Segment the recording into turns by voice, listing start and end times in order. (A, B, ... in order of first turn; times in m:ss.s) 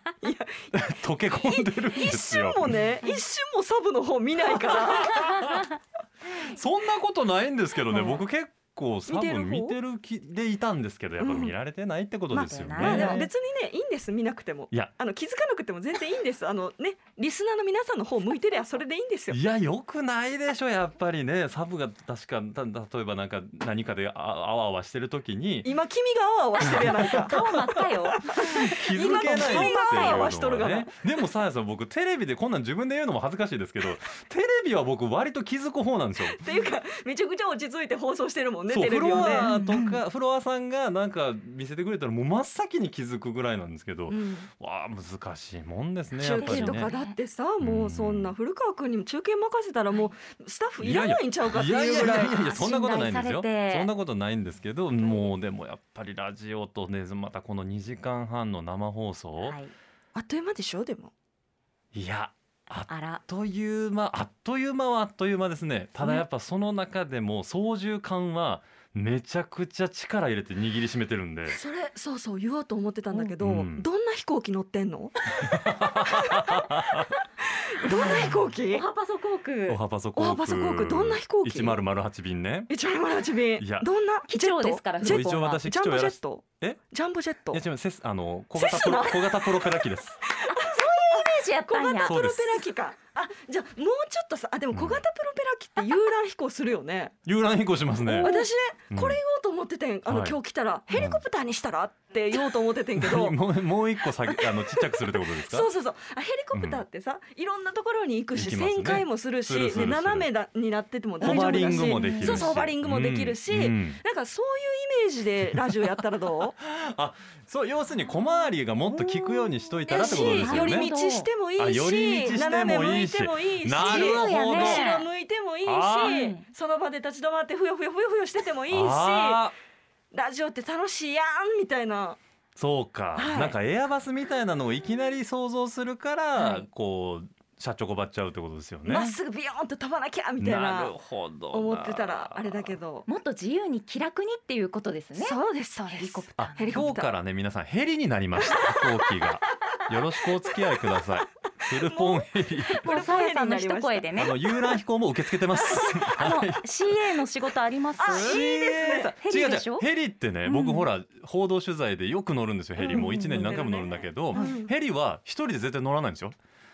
0:00.2-0:05.2 A
0:00.7-0:02.7 B
0:04.5-0:05.8 B
0:06.3-0:13.3 B
0:08.0-0:08.2 A
0:09.1-0:09.8 A
0:11.2-0:11.5 A
0:12.3-0:13.3 C
0:12.7-0:19.4 A
0:19.3-0:25.7 B
0:25.6-0:27.5 A
0:26.8-0:30.3 C
0:28.1-0:31.1 A
0:28.3-0:36.4 B
0:36.2-0:39.5 A
0:38.7-0:46.9 B
0:39.2-0:39.9 C
0:44.1-0:44.5 A
0:46.2-0:52.6 A
0:46.2-0:47.2 C
0:47.6-0:48.4 B
0:50.8-0:59.6 B
0:52.2-0:53.9 C
0:55.0-0:55.3 C
0:59.4-0:59.7 C
1:00.1-1:01.1 A
1:01.9-1:11.6 B
1:02.9-1:03.2 C
1:11.5-1:15.2 A
1:13.4-1:13.9 B
1:15.4-1:17.1 B
1:15.9-1:18.9 A
1:17.9-1:19.8 C
1:19.7-1:22.7 B
1:20.2-1:21.8 A
1:22.7-1:27.6 A
1:23.6-1:23.9 B
1:24.3-1:25.6 C
1:25.0-1:26.8 B
1:27.5-1:30.2 B
1:28.6-1:37.1 A
1:30.5-1:32.3 C
1:32.0-1:32.5 B
1:34.7-1:35.0 B
1:37.2-1:38.3 B
1:38.1-1:43.4 A
1:38.2-1:38.5 C
1:38.9-1:39.2 B
1:40.1-1:40.4 B
1:40.9-1:41.2 B
1:43.0-1:45.7 B
1:44.0-1:56.6 A
1:46.5-1:46.8 B
1:48.3-1:50.3 B
1:51.2-1:52.6 C
1:51.2-1:54.0 B
1:56.6-2:00.9 B
1:58.1-1:59.5 C
1:59.9-2:09.4 A
2:00.1-2:01.3 C
2:01.6-2:04.9 B
2:03.8-2:05.1 C
2:05.6-2:06.2 B
2:06.0-2:06.4 C
2:08.7-2:09.5 B
2:10.1-2:12.2 A
2:12.6-2:19.2 B
2:13.2-2:13.6 A
2:16.4-2:16.7 C
2:18.8-2:21.0 A
2:20.4-2:22.8 B
2:21.5-2:23.1 A
2:23.1-2:25.4 C
2:25.2-2:27.1 A
2:25.9-2:26.9 C
2:26.4-2:33.1 B
2:28.5-2:28.8 A
2:31.8-2:34.8 A
2:32.8-2:34.4 C
2:34.2-2:36.7 B
2:35.7-2:36.1 A
2:36.1-2:39.9 C
2:38.0-2:39.1 A
2:38.1-2:46.4 B
2:40.4-2:40.9 C
2:42.8-2:44.6 C
2:44.3-2:44.7 A